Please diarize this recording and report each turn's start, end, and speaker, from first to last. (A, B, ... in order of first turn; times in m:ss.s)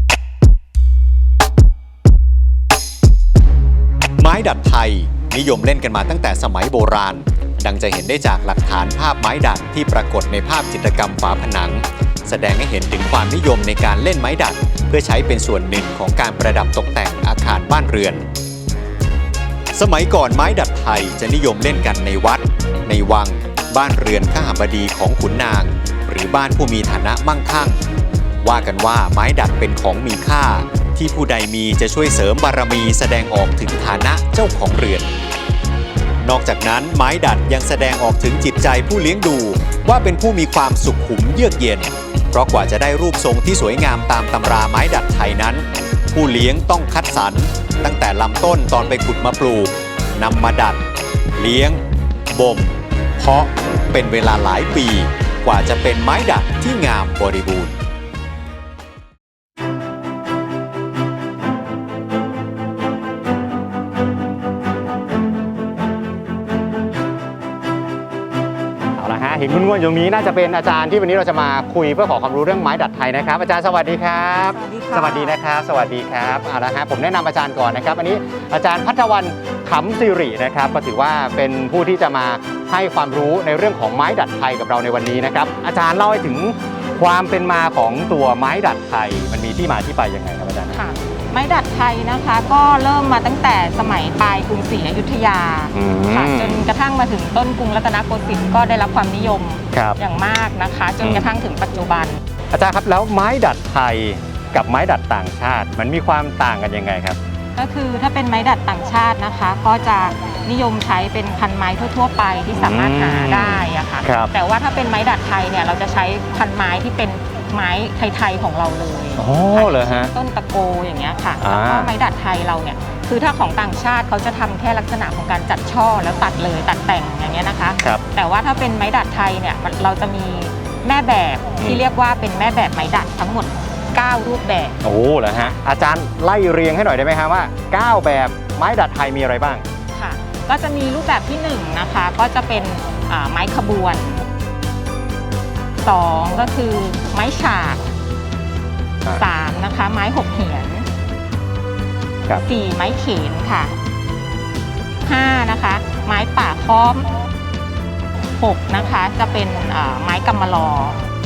0:04.2-0:18.3 A
0:19.8-0:27.8 A
0:28.4-0:35.1 A
0:36.2-0:50.8 A
0:51.4-0:57.8 A
1:09.0-1:30.8 B
1:14.5-1:15.4 C
1:30.7-1:42.2 C
1:35.7-1:36.7 B
1:39.7-1:40.0 B
1:41.0-1:41.3 B
1:42.5-1:47.2 B
1:47.6-2:14.8 C
1:52.5-1:54.3 B
1:59.2-2:00.1 B
2:01.4-2:01.9 B
2:14.8-2:19.6 B
2:19.9-2:24.2 C
2:25.8-2:27.9 C
2:29.1-2:30.9 C
2:32.4-2:33.8 C
2:35.0-2:37.1 C
2:38.4-2:41.0 C